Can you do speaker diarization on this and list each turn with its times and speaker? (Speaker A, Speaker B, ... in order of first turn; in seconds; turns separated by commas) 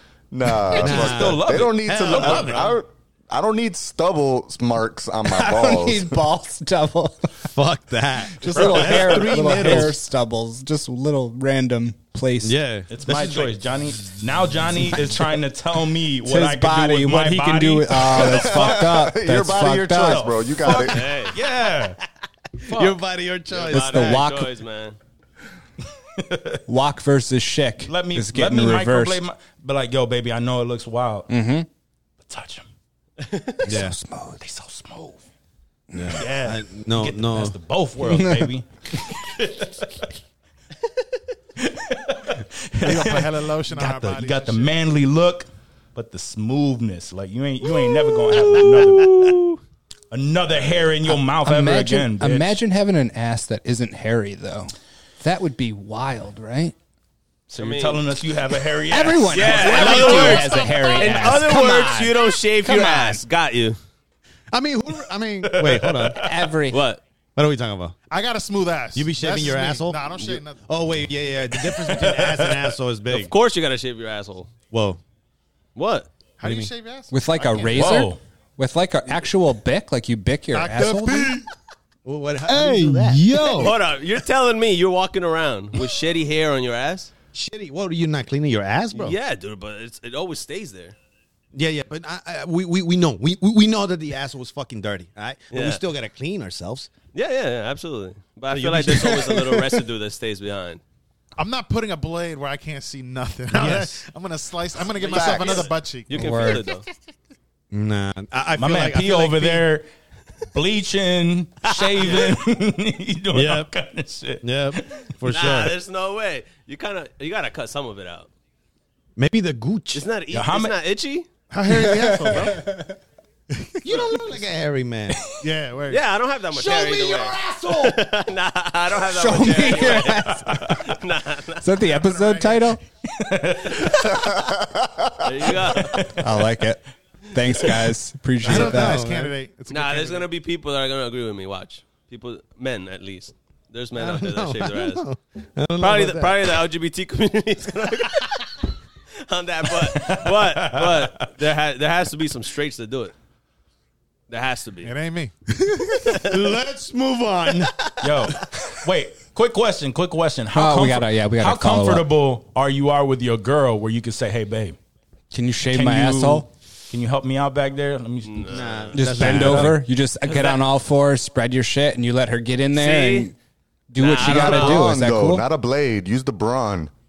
Speaker A: 0.3-6.2, Speaker B: 0.7-2.8, Speaker C: 0.7-2.8, Speaker D: 5.3-7.5, Speaker C: 7.4-10.0, Speaker D: 8.4-12.6, Speaker B: 8.5-9.8, Speaker C: 12.4-13.7, Speaker B: 12.9-18.9, Speaker D: 16.2-20.3, Speaker A: 18.2-21.1, Speaker B: 20.0-22.0, Speaker E: 20.6-21.4, Speaker C: 22.6-24.3, Speaker B: 22.7-23.0, Speaker E: 23.5-25.0, Speaker D: 23.7-24.5, Speaker B: 26.2-26.6, Speaker D: 26.7-29.2, Speaker B: 27.8-31.3, Speaker D: 31.3-31.7, Speaker B: 32.2-32.7, Speaker E: 33.2-33.6, Speaker D: 33.7-34.4, Speaker C: 33.7-34.0, Speaker B: 34.4-35.2, Speaker D: 35.9-36.2, Speaker C: 35.9-37.6, Speaker B: 36.2-40.1, Speaker D: 38.0-38.5, Speaker B: 41.6-49.4, Speaker F: 42.8-44.8, Speaker E: 48.3-49.6, Speaker B: 50.1-52.6, Speaker D: 51.0-56.8, Speaker B: 57.5-60.7, Speaker E: 57.6-58.0, Speaker D: 58.9-63.2, Speaker E: 59.3-63.8, Speaker C: 64.5-66.3, Speaker B: 65.5-66.3, Speaker D: 66.2-66.8, Speaker E: 66.7-67.0, Speaker C: 67.4-68.0, Speaker F: 68.1-70.7, Speaker C: 69.0-73.3, Speaker B: 71.8-72.6, Speaker E: 73.1-74.5, Speaker C: 74.7-75.0, Speaker E: 75.8-76.1, Speaker F: 76.4-78.1, Speaker C: 76.4-76.7, Speaker D: 77.1-81.4, Speaker B: 77.7-78.2, Speaker F: 80.5-81.5, Speaker C: 82.0-83.8, Speaker E: 83.5-87.1, Speaker C: 87.3-89.2, Speaker E: 88.9-91.0, Speaker C: 91.5-96.9, Speaker E: 95.5-95.8, Speaker E: 97.1-100.8, Speaker C: 98.5-99.4, Speaker D: 99.3-99.6, Speaker F: 101.4-106.5, Speaker C: 103.5-104.0, Speaker E: 105.0-106.9, Speaker C: 105.2-105.4, Speaker D: 106.1-106.6, Speaker C: 107.7-109.7, Speaker B: 108.6-109.9, Speaker B: 110.5-115.1, Speaker E: 111.7-112.3, Speaker C: 113.3-113.7, Speaker C: 114.4-115.8, Speaker E: 115.3-118.3, Speaker C: 119.2-120.1, Speaker E: 119.9-121.3, Speaker B: 120.3-120.7, Speaker F: 121.5-122.7, Speaker D: 121.7-122.9, Speaker C: 121.9-122.5, Speaker F: 123.8-124.2, Speaker C: 123.8-125.3, Speaker F: 125.4-126.0, Speaker E: 125.9-131.7, Speaker C: 126.5-128.0, Speaker D: 129.1-130.8, Speaker B: 129.9-130.9, Speaker D: 131.6-132.8, Speaker F: 131.8-132.8, Speaker B: 133.1-134.4, Speaker A: 134.0-135.5, Speaker E: 135.2-136.2, Speaker B: 135.7-136.5, Speaker D: 136.2-139.0, Speaker C: 138.4-139.3, Speaker F: 138.4-140.3, Speaker E: 139.7-145.1, Speaker C: 143.9-146.4, Speaker E: 145.8-148.7, Speaker E: 149.2-153.2, Speaker B: 149.8-151.3, Speaker E: 154.3-154.9, Speaker F: 154.8-155.3, Speaker E: 156.0-156.5, Speaker C: 156.1-157.9, Speaker B: 158.0-164.8, Speaker D: 160.5-162.1, Speaker D: 165.3-166.5, Speaker B: 165.7-169.8, Speaker E: 168.2-169.3, Speaker C: 168.5-169.8, Speaker D: 168.9-173.3, Speaker E: 170.3-170.6, Speaker E: 172.8-173.3, Speaker D: 173.9-175.5, Speaker E: 174.0-174.9, Speaker A: 174.2-176.9